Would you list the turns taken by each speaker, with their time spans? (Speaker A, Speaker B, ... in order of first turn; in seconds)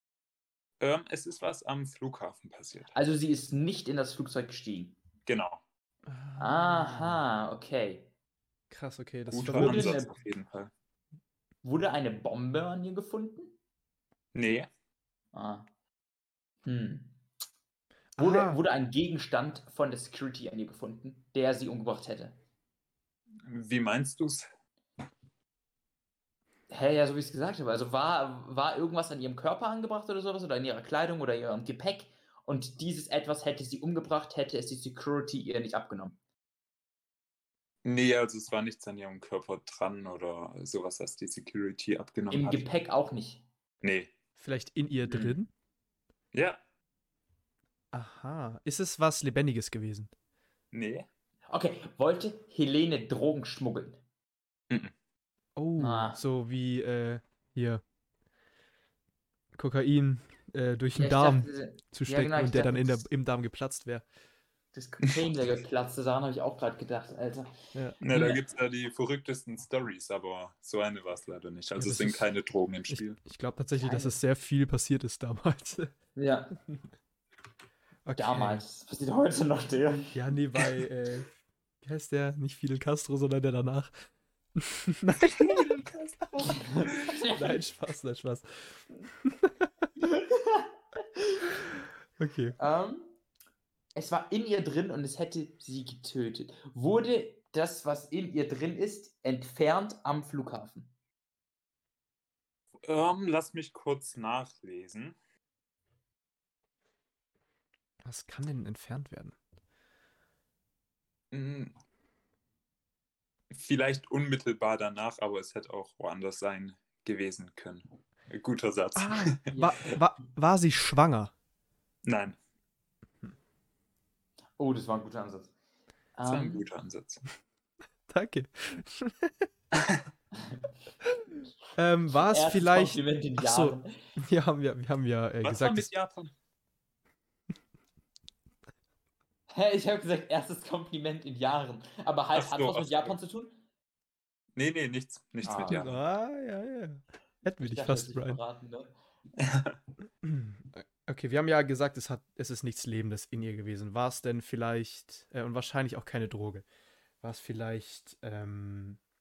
Speaker A: 0.8-2.9, 5.3-5.6, 9.3-10.7, 14.3-14.7, 23.5-24.5, 37.8-42.7, 43.8-44.1, 46.3-46.6, 50.7-51.1, 68.0-73.2, 102.8-105.2, 111.3-111.7, 113.5-119.5, 122.0-122.4, 126.3-127.2, 129.8-130.0, 135.4-136.3, 142.3-143.2, 144.6-146.0, 149.4-149.8
Speaker B: 2.9-5.0, 6.4-8.1, 9.4-10.2, 11.6-13.5, 15.3-15.7, 16.6-17.2, 18.2-22.4, 26.7-36.2, 42.3-43.5, 45.1-45.4, 51.5-54.0, 55.8-56.2, 61.0-63.0, 64.7-67.5, 68.0-68.4, 73.8-74.2, 76.2-76.5, 78.2-80.2, 86.4-87.6, 90.0-90.7, 92.6-93.2, 94.0-100.9, 119.5-119.8, 124.6-125.5, 126.2-126.7, 132.2-133.9, 139.5-143.6, 145.4-145.8, 147.6-148.9
Speaker C: 6.1-7.2, 8.7-10.0, 18.1-18.6, 44.4-45.5, 47.9-50.1, 55.6-57.8, 59.5-64.0, 71.8-72.3, 72.9-75.9, 78.0-78.6, 80.1-81.3, 81.8-86.5, 87.1-89.7, 92.2-92.6, 108.0-109.4, 119.0-121.3, 128.1-129.4, 131.8-135.9, 145.7-148.4, 150.2-156.7, 157.2-159.0